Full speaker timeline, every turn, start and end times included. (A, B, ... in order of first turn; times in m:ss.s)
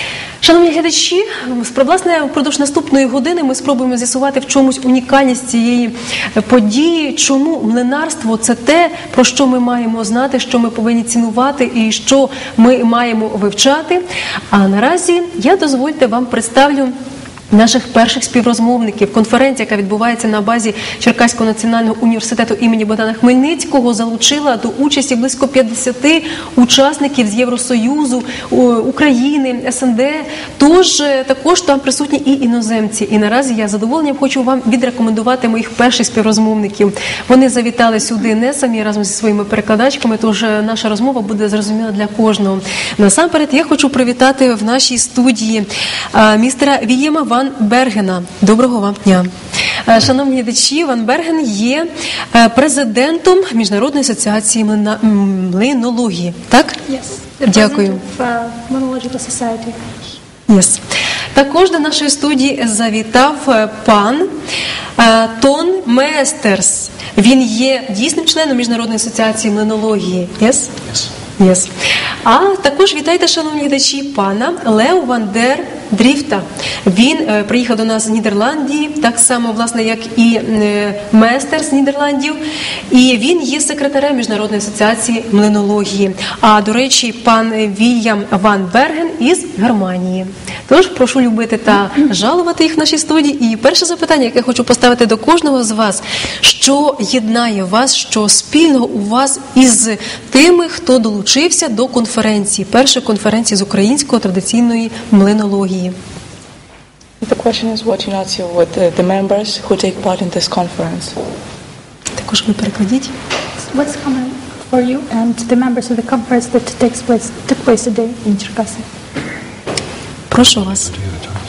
0:00.4-0:16.9 A
0:17.5-0:49.3 A
0:49.9-0:56.8 A
0:56.9-0:59.8 B
0:57.4-0:58.0 A
1:00.5-1:00.8 A
1:01.3-1:04.3 A
1:05.0-1:10.8 A
1:11.4-1:11.7 A
1:12.2-1:22.4 A
1:22.9-1:46.0 A
1:47.2-1:51.2 C
1:52.2-1:53.1 A
1:53.7-1:58.8 B
2:00.3-2:00.9 A